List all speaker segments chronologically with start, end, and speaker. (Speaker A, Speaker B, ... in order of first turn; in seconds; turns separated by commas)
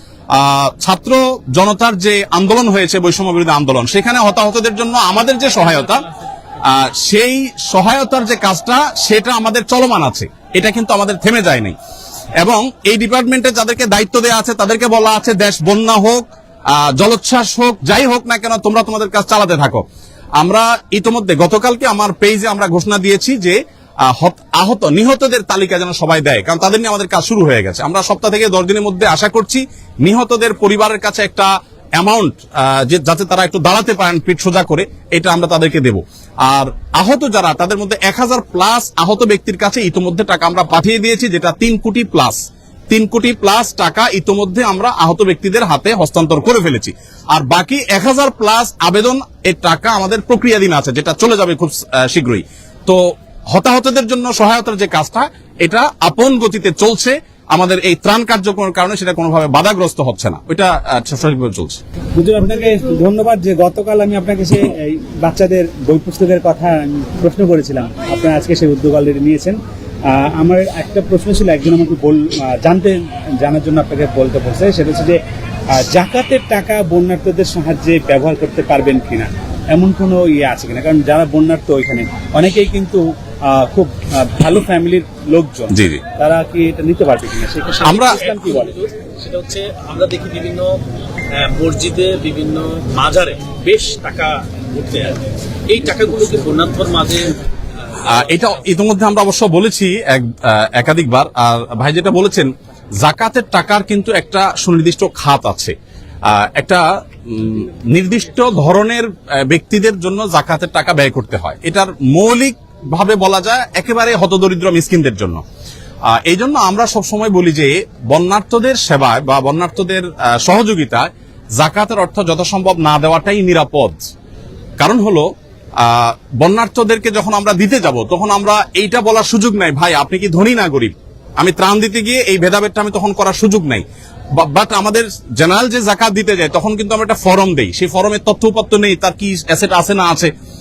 Speaker A: 0.3-6.0, Speaker A: 6.6-11.8, Speaker A: 12.4-19.9, Speaker A: 20.4-61.8, Speaker B: 62.1-88.8, Speaker A: 85.7-86.0, Speaker C: 87.8-90.8, Speaker A: 87.8-88.2, Speaker C: 91.3-97.3, Speaker A: 98.1-105.8, Speaker A: 106.3-115.4, Speaker A: 116.1-124.1, Speaker A: 124.8-133.8, Speaker A: 134.4-140.3